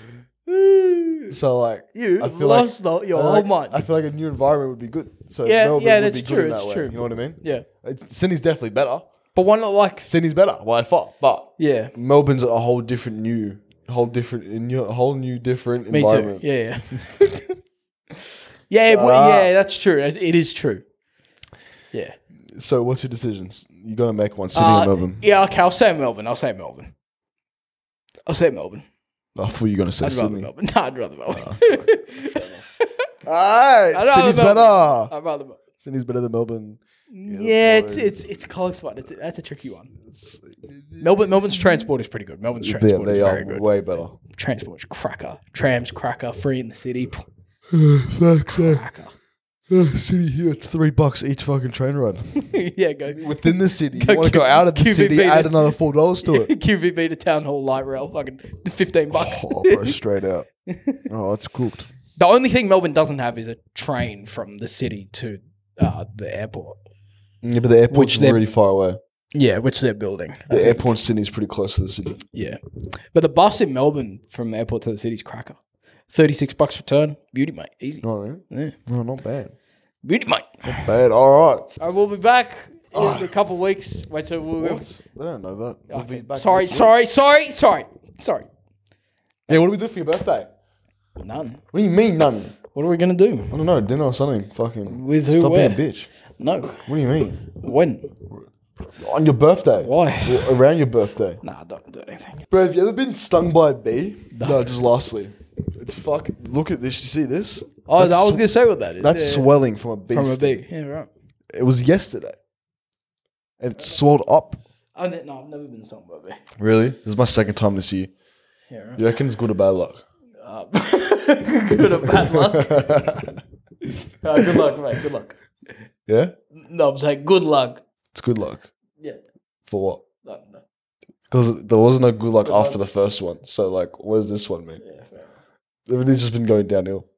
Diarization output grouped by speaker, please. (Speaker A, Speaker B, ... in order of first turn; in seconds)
Speaker A: 0.5-1.4, 1.9-3.8, 5.4-7.7, 9.3-10.1, 11.6-11.9, 15.9-17.6, 18.7-20.8, 24.5-26.9, 28.3-28.9, 30.0-33.1, 33.9-35.6, 37.1-39.9, 41.0-43.6, 44.3-47.3, 48.5-49.1, 52.4-60.0, 60.7-61.0, 62.2-66.8, 67.9-68.4, 69.3-71.0, 72.3-72.6, 73.1-75.6, 76.1-78.8, 80.0-80.9, 81.8-84.8, 85.9-88.5, 91.2-91.6, 92.8-93.5, 94.9-95.8, 96.4-96.9, 97.5-98.1, 99.8-100.6, 101.4-102.4, 104.3-104.7, 107.9-109.5, 110.1-111.1, 115.0-116.4, 118.7-119.0, 120.4-123.1, 123.8-125.4, 126.5-127.8, 130.2-130.6, 132.4-132.8, 134.8-135.3
Speaker B: 1.3-9.1, 10.1-17.1, 18.9-19.5, 22.6-25.2, 29.4-30.5, 31.3-32.7, 33.3-35.1, 35.8-38.3, 40.0-41.8, 42.6-44.2, 47.7-48.8, 49.7-52.5, 53.1-56.5, 59.1-60.5, 61.1-61.9, 67.4-69.0, 70.5-72.2, 78.0-79.5, 80.7-81.7, 82.9-83.3, 84.6-86.9, 89.5-90.5, 91.7-92.6, 93.5-96.1, 96.9-97.4, 99.0-101.4, 102.5-108.5, 109.0-110.6, 111.5-112.4, 113.6-114.6, 116.6-118.1, 119.0-120.0, 122.4-123.4, 126.1-126.3, 128.1-128.7, 129.7-130.0, 131.3-134.8, 135.9-137.1